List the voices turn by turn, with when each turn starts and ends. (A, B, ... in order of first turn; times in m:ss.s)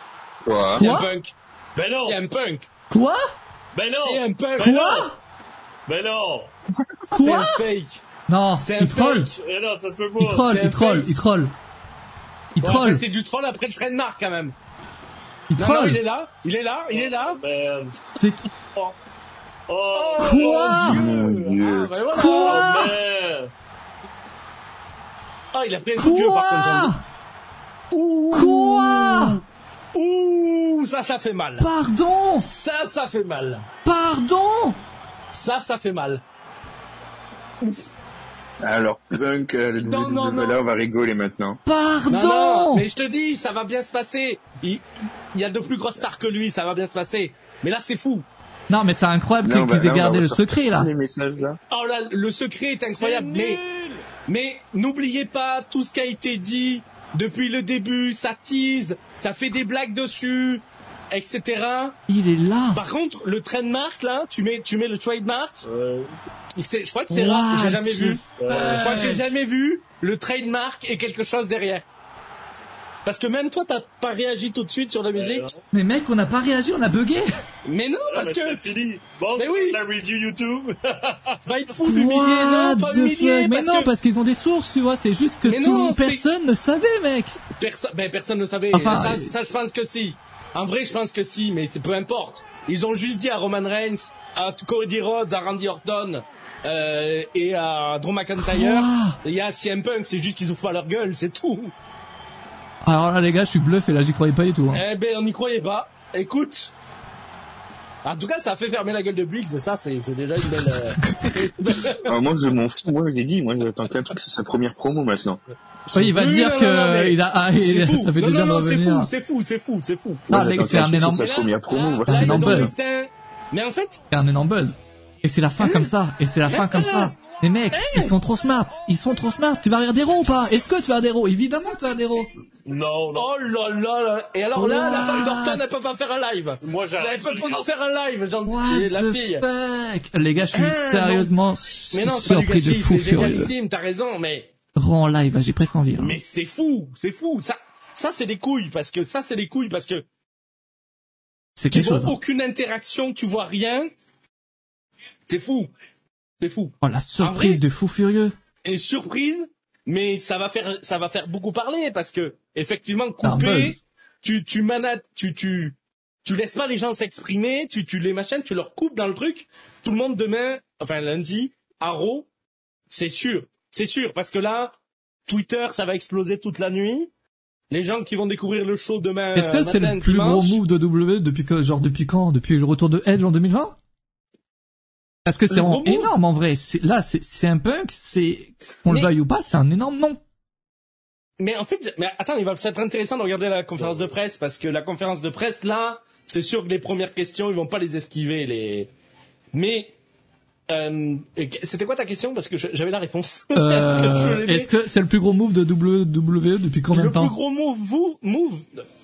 0:00.4-0:00.8 A
0:00.7-0:02.7 B
0:00.8-0:01.1 C
0:01.8-0:02.2 D
0:02.9-0:03.3 C
0:03.8-0:04.2 D
0:04.0-0:05.1 B
0:04.6-0:05.2 C
0:05.9-0:06.5 D
0:07.1-0:07.6 C
0:07.1-0:08.0 B
0:08.3-0:09.3 C
0:08.6-0:09.4 B
0:09.3-0:10.5 D
0:10.2-0:11.5 C
0:10.5-0:11.3 B
0:12.6-0:13.0 C
0:12.6-0:14.5 B
0:15.5-0:16.0 C
0:15.6-0:17.4 B
0:17.0-0:18.0 D
0:18.2-0:18.5 C
0:19.7-0:21.4 D
0:19.9-0:22.8 B
0:20.2-0:21.0 C
0:20.9-0:21.9 A
0:22.1-0:23.0 C
0:22.2-0:23.5 D
0:25.5-0:26.9 B
0:26.0-0:27.0 C
0:27.9-0:29.4 B
0:28.3-0:29.4 C
0:29.9-0:31.7 B
0:31.6-0:32.4 C
0:32.4-0:33.7 B
0:33.8-0:34.8 C
0:35.3-0:36.2 B
0:38.6-0:41.6 A
0:39.8-0:40.6 B
0:41.7-0:42.9 C
0:42.1-0:48.2 B
0:48.7-0:50.9 C
0:49.4-0:51.6 A
0:51.7-1:02.0 B
0:53.0-0:54.0 D
1:02.1-1:02.8 C
1:02.7-1:05.7 B
1:05.6-1:06.1 D
1:06.6-1:11.8 B
1:07.1-1:09.2 C
1:08.4-1:09.1 D
1:13.0-1:15.5 B
1:15.1-1:15.6 D
1:15.7-1:17.3 C
1:17.6-1:18.6 B
1:18.0-1:21.4 D
1:19.4-1:19.8 B
1:21.4-1:23.9 B
1:21.8-1:27.4 C
1:25.4-1:26.2 B
1:27.6-1:41.7 B
1:28.7-1:29.3 C
1:38.4-1:39.2 C
1:42.8-1:44.8 C
1:44.7-1:46.7 B
1:48.0-1:52.2 B
1:51.0-1:51.4 C
1:51.9-1:55.4 A
1:55.9-2:00.3 B
1:55.9-1:59.1 C
2:00.3-2:02.7 A
2:00.3-2:01.2 C
2:00.9-2:04.0 B
2:02.0-2:02.7 C
2:04.1-2:12.3 C
2:05.6-2:05.9 B
2:06.5-2:07.1 B
2:06.7-2:07.1 D
2:07.7-2:08.1 B
2:12.6-2:13.3 D
2:13.1-2:19.4 B
2:14.6-2:15.7 C
2:16.6-2:17.6 D
2:18.4-2:23.5 C
2:20.5-2:21.4 B
2:21.9-2:24.5 B
2:24.8-2:26.2 C
2:26.0-2:30.0 B
2:31.6-2:32.2 C
2:31.7-2:33.9 B
2:35.3-2:35.7 B
2:36.4-2:37.6 B
2:36.8-2:38.3 C
2:38.6-2:52.3 B
2:43.2-2:43.8 C
2:52.9-2:54.8 B
2:55.3-2:57.1 B
2:57.7-3:00.6 B
2:59.3-3:03.8 C
3:05.2-3:10.2 C
3:05.5-3:06.1 B
3:08.8-3:09.1 B
3:11.4-3:18.9 B
3:19.5-3:19.9 B
3:20.7-3:24.7 B
3:23.5-3:27.3 C
3:26.9-3:28.8 B